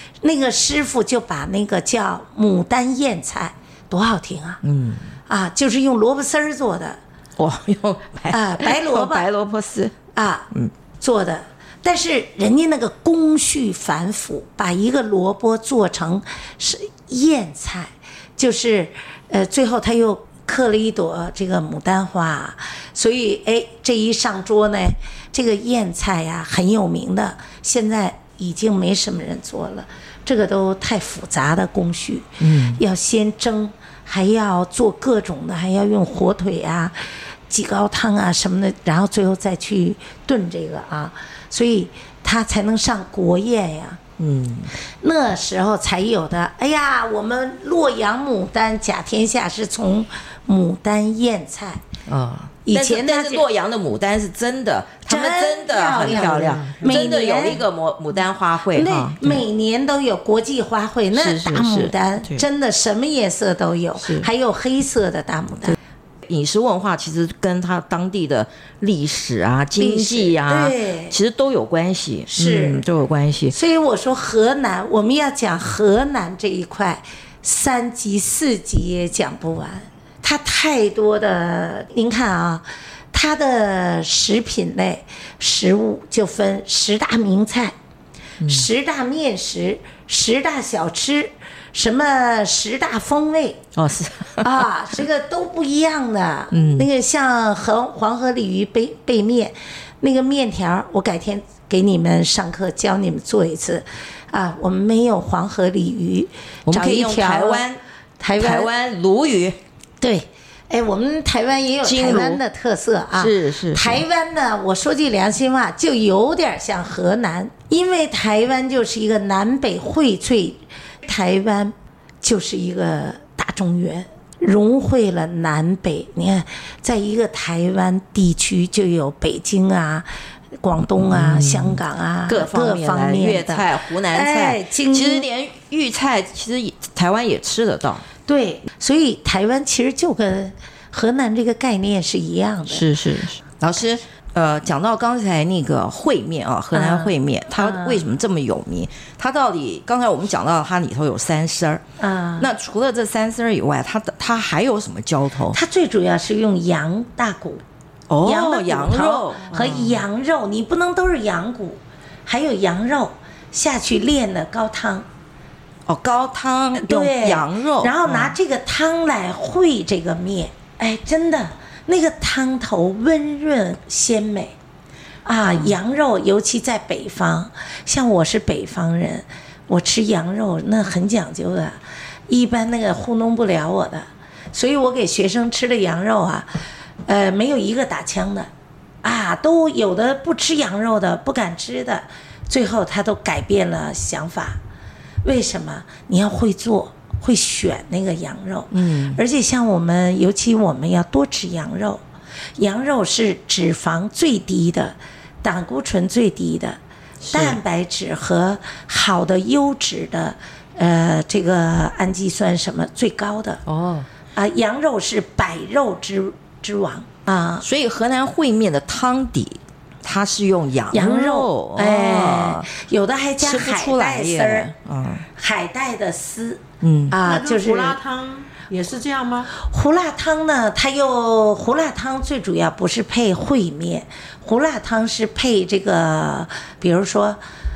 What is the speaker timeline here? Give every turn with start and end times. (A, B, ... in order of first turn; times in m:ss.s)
0:00.2-0:04.6 A
0:04.6-0:05.1 B
0:05.3-0:07.0 A
0:07.4-0:09.9 B
0:08.3-0:09.3 A
0:10.1-0:44.0 A
0:32.4-0:32.8 B
0:44.2-0:44.7 B
0:45.0-0:51.8 A
0:52.1-0:59.4 B
0:52.6-0:53.4 A
0:55.1-0:57.6 A
0:55.9-0:57.0 C
0:58.7-1:05.8 A
1:01.1-1:02.4 B
1:04.0-1:04.3 B
1:06.2-1:13.6 B
1:09.8-1:11.2 A
1:12.3-1:12.8 A
1:13.5-1:27.7 A
1:28.4-1:28.7 B
1:28.5-1:33.6 A
1:33.7-1:34.6 B
1:34.4-1:47.6 A
1:36.5-1:36.9 B
1:46.7-1:47.8 B
1:48.2-1:48.7 A
1:48.4-1:49.6 B
1:50.0-2:10.1 A
1:51.8-1:52.4 B
1:53.1-1:54.0 B
2:10.6-2:15.3 A
2:11.0-2:18.1 B
2:18.3-2:22.8 A
2:22.7-2:31.8 B
2:26.7-2:28.0 A
2:32.0-2:32.5 A
2:32.4-2:35.6 B
2:35.5-2:37.6 A
2:38.1-2:40.0 B
2:38.2-2:45.1 A
2:45.9-2:48.4 B
2:46.8-2:54.6 A
2:55.2-3:06.5 A
3:07.1-3:08.5 A
3:09.0-3:14.6 A
3:15.2-3:22.0 A
3:18.7-3:19.2 B
3:22.6-3:26.8 A
3:27.2-3:27.6 B
3:27.3-3:33.6 A
3:33.6-3:34.1 B
3:34.4-3:37.6 A
3:37.6-3:42.7 B
3:40.9-3:44.7 A
3:43.4-3:45.2 B
3:45.4-3:48.0 A
3:46.8-3:47.2 B
3:47.2-3:49.5 C
3:49.6-3:57.4 A